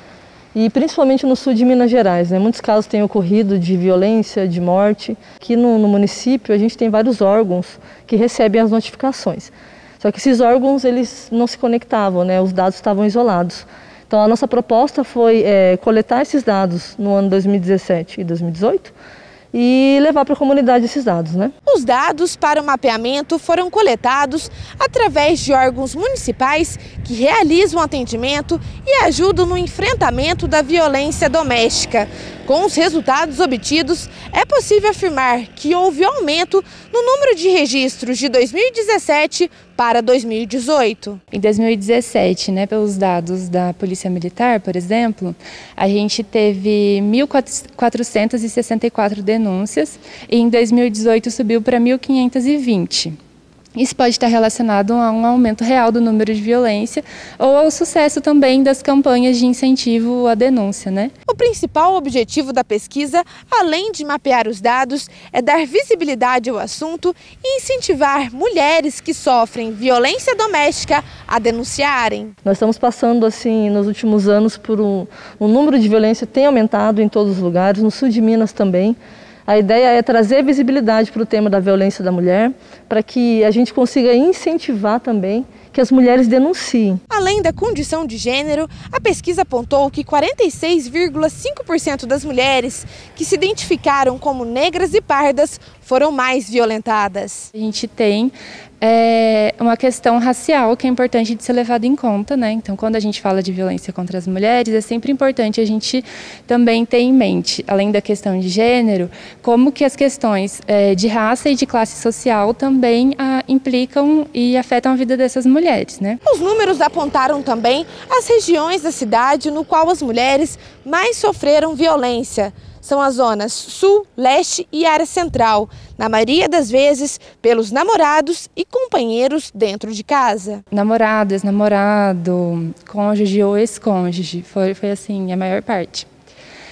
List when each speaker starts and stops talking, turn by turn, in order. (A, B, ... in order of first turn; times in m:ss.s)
0:00.5-0:18.9 A
0:19.5-0:21.5 A
0:21.6-0:41.2 B
0:41.3-0:53.2 C
0:53.7-1:01.1 C
1:01.2-1:12.3 B
1:12.4-1:27.0 A
1:27.1-1:37.5 B
1:37.5-1:56.2 C
1:56.2-2:10.6 B
2:10.7-2:16.0 C